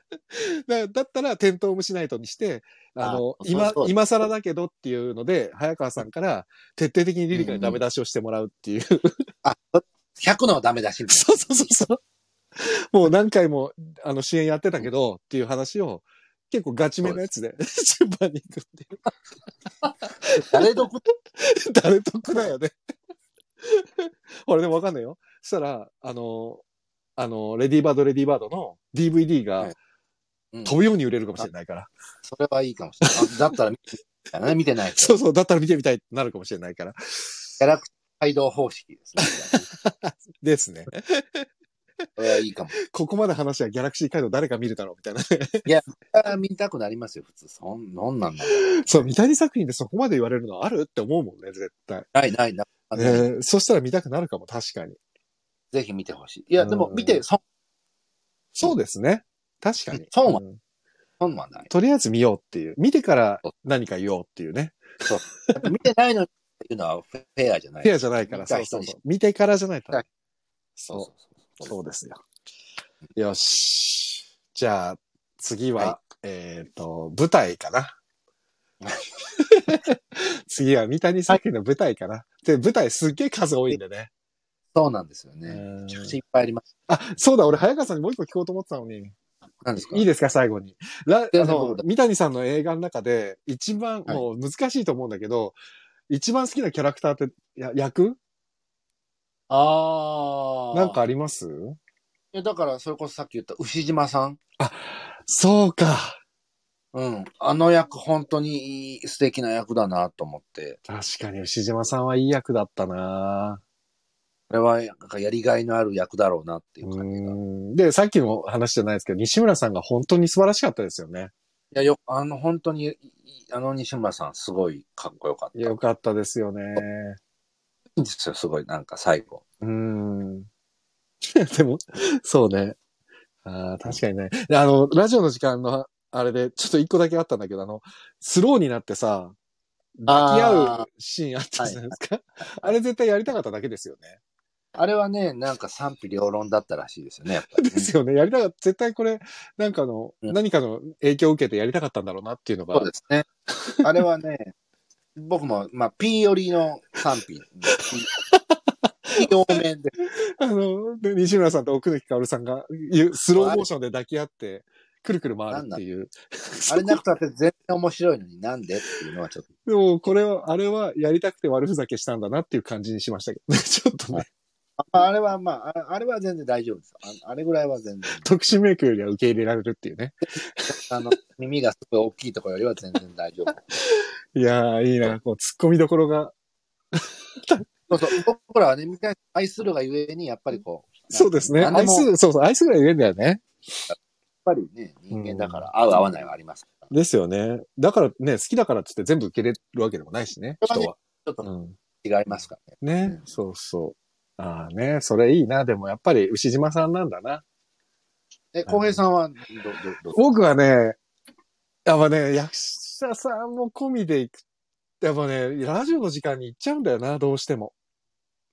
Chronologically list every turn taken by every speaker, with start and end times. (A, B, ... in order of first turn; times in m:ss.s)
0:00.3-0:09.2 A
0:03.0-0:04.0 B
0:07.3-0:07.8 B
0:09.4-0:11.7 B
0:11.1-0:12.0 A
0:12.6-0:19.1 A
0:19.8-0:21.0 B
0:20.0-0:20.8 A
0:21.3-0:22.7 A
0:23.6-0:26.6 A
0:27.2-0:29.7 A
0:30.5-0:30.8 B
0:30.6-0:31.9 A
0:32.3-0:35.2 B
0:35.0-0:37.4 A
0:37.6-0:39.7 B
0:39.2-0:41.5 A
0:42.2-0:42.8 B
0:42.8-0:45.7 A
0:45.7-0:49.1 B
0:48.7-0:52.1 A
0:52.1-0:53.3 B
0:53.0-0:55.0 A
0:55.7-0:57.4 B
0:56.6-0:57.2 A
0:58.6-1:00.6 A
0:59.9-1:00.4 B
1:01.2-1:01.7 B
1:01.7-1:04.8 A
1:05.0-1:08.9 B
1:07.8-1:10.0 A
1:10.8-1:11.1 A
1:10.9-1:11.7 B
1:11.6-1:12.2 A
1:13.2-1:18.0 A
1:18.8-1:19.1 B
1:19.4-1:24.1 A
1:24.8-1:26.6 B
1:25.5-1:26.2 A
1:26.9-1:29.2 A
1:29.6-1:30.1 B
1:29.9-1:35.6 A
1:31.3-1:31.8 B
1:36.1-1:38.2 A
1:39.5-1:41.0 B
1:40.7-1:41.8 A
1:42.3-1:44.4 B
1:44.6-1:46.2 A
1:46.9-1:50.8 B
1:50.9-1:53.6 A
1:54.5-1:57.4 B
1:56.8-2:01.3 A
2:01.7-2:05.8 B
2:05.6-2:07.2 A
2:08.0-2:09.4 B
2:09.6-2:10.5 A
2:11.2-2:12.8 A
2:13.4-2:19.4 A
2:20.0-2:24.2 A
2:20.1-2:20.9 B
2:21.6-2:22.0 B
2:22.5-2:22.7 B
2:24.8-2:27.9 B
2:27.5-2:32.9 A
2:32.7-2:33.3 B
2:33.6-2:33.9 A
2:33.8-2:34.5 B
2:35.2-2:38.1 B
2:38.1-2:39.3 A
2:39.1-2:40.0 B
2:40.0-2:47.0 A
2:43.4-2:43.6 B
2:45.5-2:45.8 B
2:46.7-2:49.5 B
2:49.7-2:54.3 A
2:54.8-2:58.3 B
2:58.2-3:00.8 A
3:00.6-3:03.6 B
3:03.7-3:06.3 A
3:06.9-3:08.2 A
3:07.9-3:12.1 B
3:11.1-3:13.5 A
3:13.9-3:16.9 B
3:15.1-3:15.7 A
3:16.9-3:21.8 A
3:20.6-3:21.5 B
3:22.0-3:23.2 B
3:22.8-3:27.4 A
3:28.5-3:30.3 B
3:28.7-3:29.0 A
3:30.1-3:31.0 A
3:31.8-3:34.4 A
3:35.0-3:37.8 A